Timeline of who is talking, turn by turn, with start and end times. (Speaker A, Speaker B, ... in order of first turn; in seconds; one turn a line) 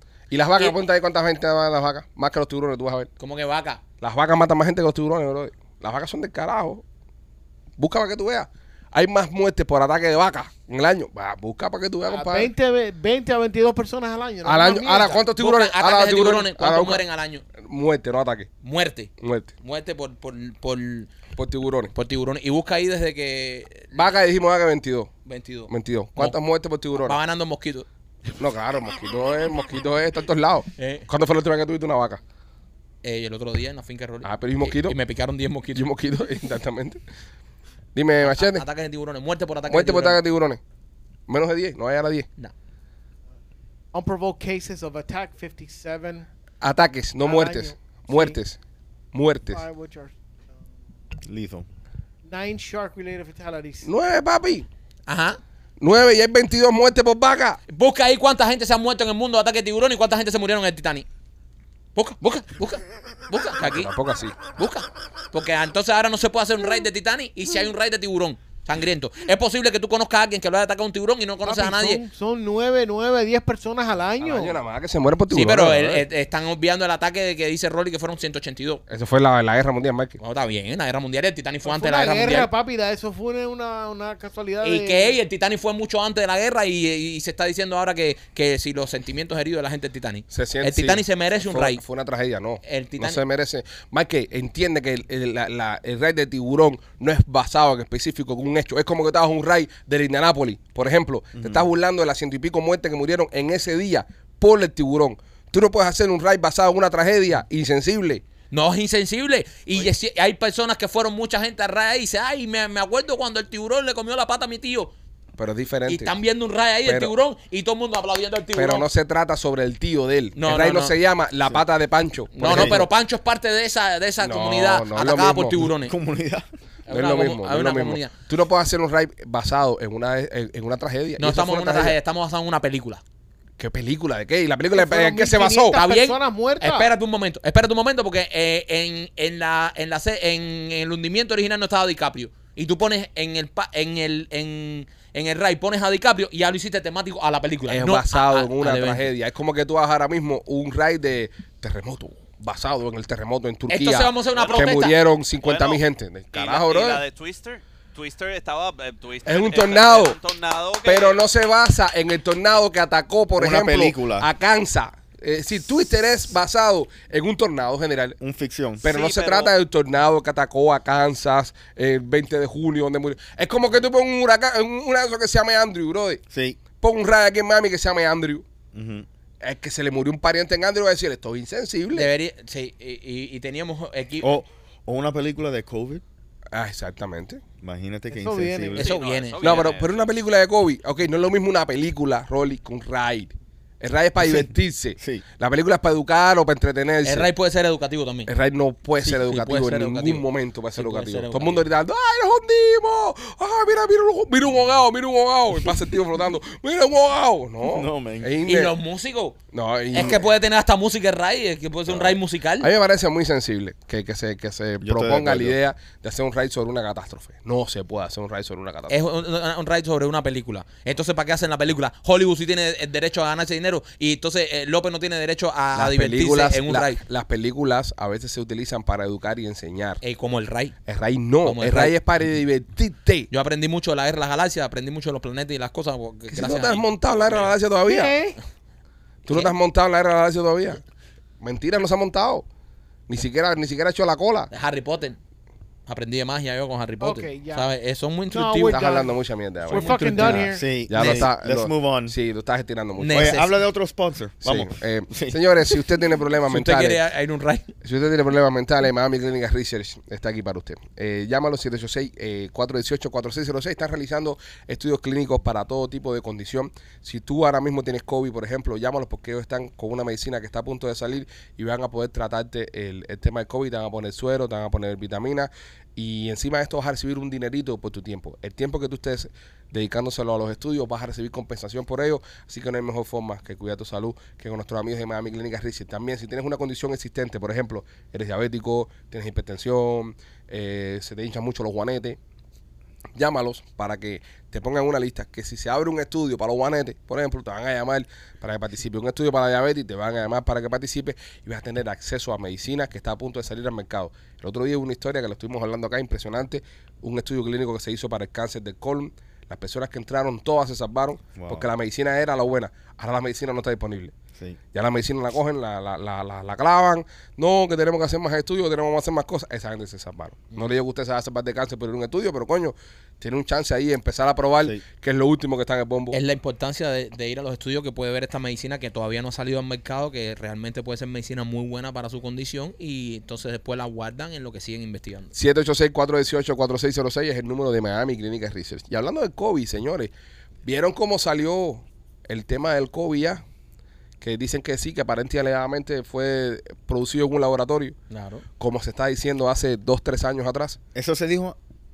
Speaker A: 0.3-3.1
Speaker B: 3.2-3.8
Speaker A: 4.0-6.8
Speaker A: 7.8-12.5
Speaker C: 12.1-15.2
Speaker A: 14.4-17.0
Speaker B: 15.4-17.4
Speaker A: 17.6-18.5
Speaker B: 18.6-21.1
Speaker A: 19.2-19.5
Speaker A: 21.4-21.9
Speaker B: 21.9-23.9
Speaker A: 23.9-25.1
Speaker B: 25.2-26.4
Speaker A: 25.7-27.2
Speaker B: 26.9-27.9
Speaker A: 28.4-32.2
Speaker B: 30.8-31.1
Speaker B: 33.0-35.9
Speaker A: 34.2-35.0
Speaker A: 35.7-37.0
Speaker A: 38.0-38.6
Speaker B: 38.2-40.2
Speaker A: 39.7-40.6
Speaker A: 41.3-42.3
Speaker C: 43.9-46.3
Speaker A: 46.6-48.6
Speaker C: 47.2-48.4
Speaker A: 49.1-49.6
Speaker C: 49.5-50.1
Speaker D: 51.2-51.7
Speaker C: 52.3-53.9
Speaker A: 53.8-54.7
Speaker B: 55.1-55.4
Speaker A: 55.8-57.6
Speaker B: 57.7-61.1
Speaker B: 62.0-63.9
Speaker A: 63.6-64.4
Speaker B: 64.5-72.0
Speaker C: 71.5-74.6
Speaker A: 74.2-76.0
Speaker B: 75.3-78.8
Speaker A: 78.9-80.2
Speaker B: 80.2-82.5
Speaker C: 81.6-85.2
Speaker B: 84.6-91.8
Speaker A: 90.3-108.2
Speaker B: 92.6-93.2
Speaker D: 101.3-101.7
Speaker B: 108.5-114.9
Speaker A: 115.4-116.1
Speaker B: 115.9-118.9
Speaker A: 116.8-117.1
Speaker A: 118.5-122.9
Speaker B: 120.4-121.0
Speaker B: 122.3-126.0
Speaker D: 122.4-122.8
Speaker A: 124.2-125.7
Speaker D: 125.7-126.5
Speaker B: 126.9-128.1
Speaker A: 126.9-132.0
Speaker B: 131.2-133.0
Speaker A: 133.6-135.8
Speaker C: 134.7-136.9
Speaker B: 135.7-149.1
Speaker A: 147.7-157.0
Speaker B: 153.7-155.0
Speaker E: 154.3-154.7
Speaker E: 155.4-161.2
Speaker A: 159.3-160.2
Speaker A: 160.8-168.2
Speaker D: 163.4-164.3
Speaker D: 168.2-168.8
Speaker A: 168.8-176.2
Speaker E: 168.8-169.5
Speaker D: 176.3-176.6
Speaker A: 176.7-178.4
Speaker D: 178.7-179.1
Speaker A: 179.4-182.1
Speaker B: 181.9-184.4
Speaker D: 184.2-186.0
Speaker A: 186.5-187.4
Speaker D: 187.6-188.9
Speaker C: 188.1-188.9
Speaker B: 188.8-189.6
Speaker E: 188.8-190.1
Speaker A: 189.4-197.3
Speaker D: 194.2-195.2
Speaker B: 197.1-198.3
Speaker A: 198.3-208.8
Speaker B: 199.0-201.7
Speaker D: 207.6-208.3
Speaker B: 208.4-209.4
Speaker A: 209.5-210.2
Speaker B: 209.9-212.7
Speaker A: 211.9-218.9
Speaker D: 214.8-215.6
Speaker B: 218.9-227.0
Speaker A: 225.7-230.0
Speaker B: 230.0-230.7
Speaker A: 230.9-233.3
Speaker B: 231.4-231.9
Speaker B: 233.3-237.5
Speaker A: 236.3-238.2
Speaker C: 237.8-238.4
Speaker A: 239.2-240.8
Speaker A: 241.4-242.4
Speaker A: 243.1-244.5
Speaker B: 244.5-245.2
Speaker B: 245.9-248.9
Speaker C: 247.0-247.7
Speaker C: 248.3-249.1
Speaker A: 248.7-253.3
Speaker C: 249.7-250.7
Speaker B: 249.7-251.3
Speaker D: 250.5-252.1
Speaker B: 253.0-253.6
Speaker D: 253.1-255.4
Speaker A: 254.4-257.0
Speaker B: 256.4-257.7
Speaker A: 257.8-292.2
Speaker A: 293.1-314.2
Speaker D: 311.4-311.7
Speaker D: 314.3-314.6
Speaker A: 314.7-326.2
Speaker B: 326.1-335.3
Speaker A: 335.4-340.1
Speaker A: 340.6-343.4
Speaker A: 344.2-347.9
Speaker B: 348.1-348.4
Speaker A: 348.6-350.8
Speaker D: 350.9-351.6